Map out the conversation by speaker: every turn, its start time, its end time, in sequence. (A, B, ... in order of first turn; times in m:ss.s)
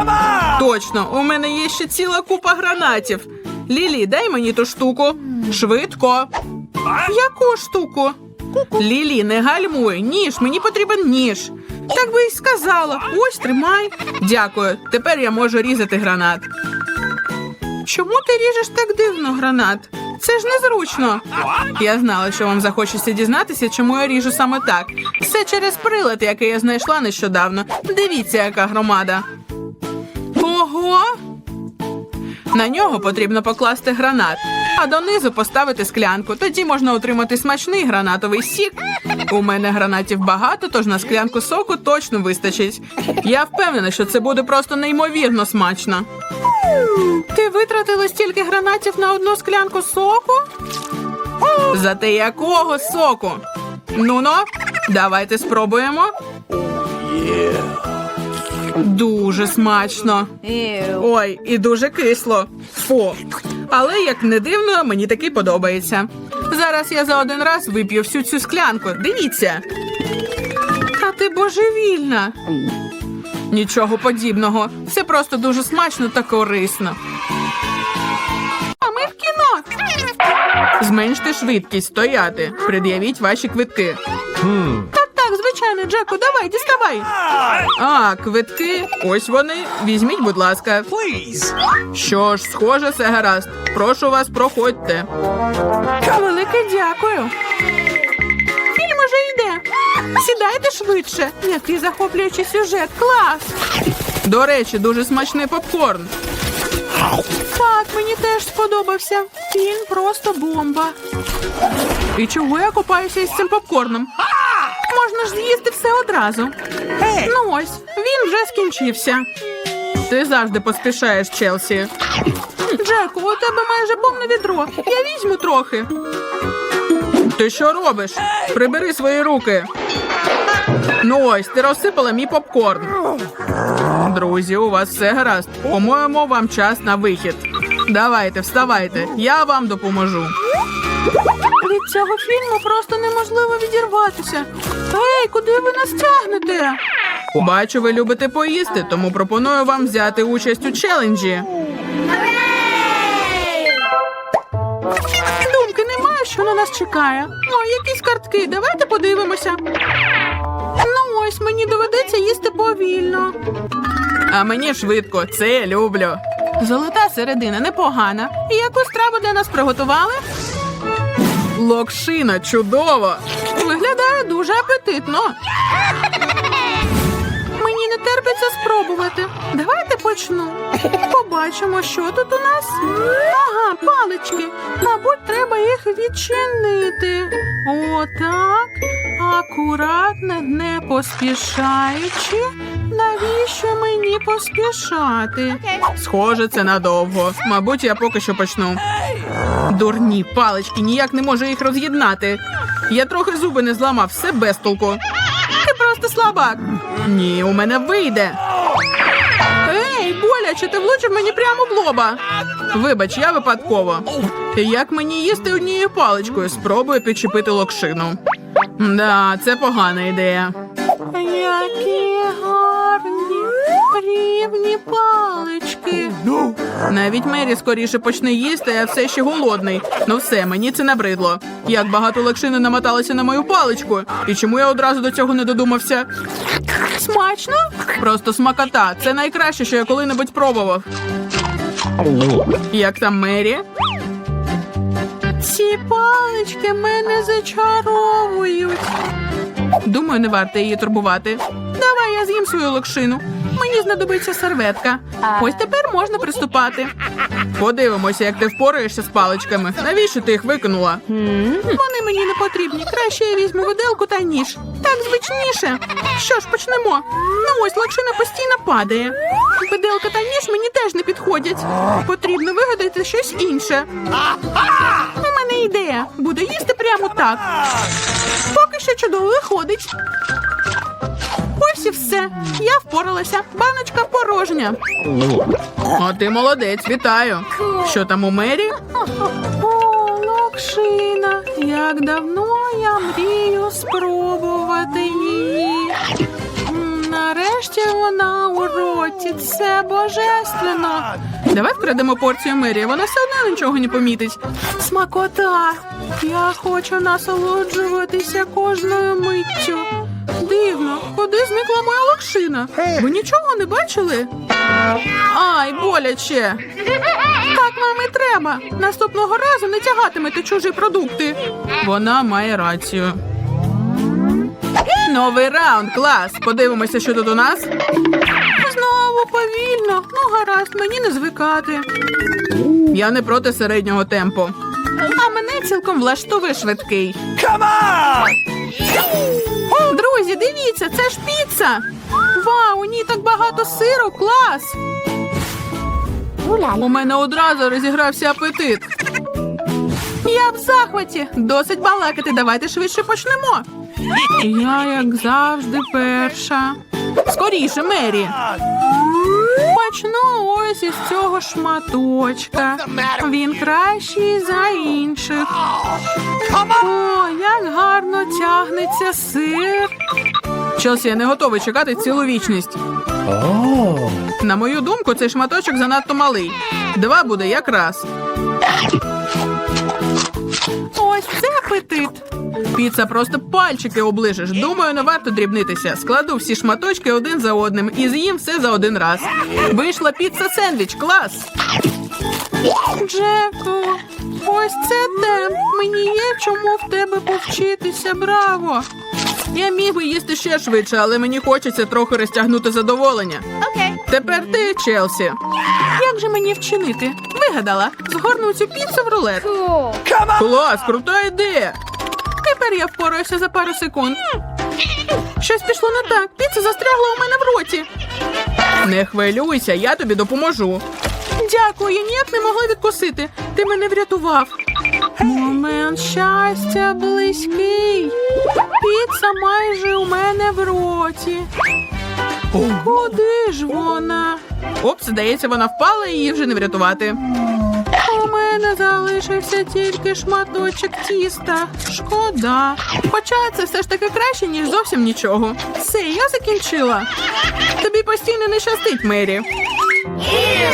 0:00.4-0:06.3 A
0:06.8-0:16.5 A
0:17.8-0:29.2 A
0:30.4-0:31.2 A
0:32.5-0:38.8 A
0:39.3-0:46.0 A
0:47.0-0:50.4 A
0:51.7-0:56.1 A
0:57.3-0:57.5 B
0:58.7-1:09.6 A
1:00.5-1:01.0 B
1:10.9-1:12.4 A
1:13.5-1:17.0 A
1:18.8-1:19.7 A
1:20.8-1:24.0 A
1:24.5-1:35.1 A
1:36.0-1:37.3 A
1:38.7-1:43.6 A
1:44.2-1:46.1 A
1:47.5-1:50.9 A
1:52.1-1:54.1 A
1:54.9-1:59.3 A
2:00.1-2:01.9 A
2:02.7-2:05.9 A
2:07.3-2:09.7 A
2:11.0-2:12.9 A
2:14.0-2:20.3 A
2:21.6-2:26.8 A
2:27.3-2:31.5 A
2:35.4-2:39.6 A
2:40.8-2:43.4 A
2:44.3-2:50.2 A
2:51.5-2:55.4 A
2:57.5-3:18.8 A
3:19.7-3:25.0 A
3:25.6-3:28.4 A
3:29.6-3:32.2 A
3:32.7-3:38.2 A
3:38.8-3:40.5 A
3:41.1-3:46.2 A
3:46.9-3:56.1 A
3:56.9-4:00.8 A
4:02.7-4:03.6 A
4:05.4-4:08.9 A
4:09.8-4:16.9 A
4:17.6-4:33.9 A
4:21.1-4:21.6 B
4:35.0-4:39.9 A
4:41.6-4:44.8 A
4:45.9-4:56.0 A
4:56.6-5:14.3 A
5:15.3-5:16.6 A
5:17.4-5:23.2 A
5:25.0-5:27.7 A
5:28.6-5:31.9 A
5:32.9-5:37.2 A
5:37.8-5:38.0 B
5:39.6-5:44.8 A
5:46.4-5:46.8 B
5:46.7-5:48.9 A
5:50.2-5:53.6 A
5:54.3-5:58.4 A
5:59.6-6:05.6 A
6:06.5-6:09.9 A
6:10.8-6:12.8 A
6:13.4-6:14.1 B
6:14.4-6:18.1 A
6:20.9-6:31.5 A
6:32.9-6:38.9 A
6:39.5-6:43.5 A
6:43.6-6:44.0 B
6:44.1-6:49.6 A
6:49.7-6:50.0 B
6:50.2-6:51.8 A
6:52.4-6:54.2 A
6:55.4-6:57.9 A
6:58.8-7:00.8 A
7:01.4-7:04.5 A
7:05.2-7:08.2 A
7:08.7-7:11.5 A
7:12.5-7:17.2 A
7:18.0-7:27.1 A
7:27.8-7:29.4 A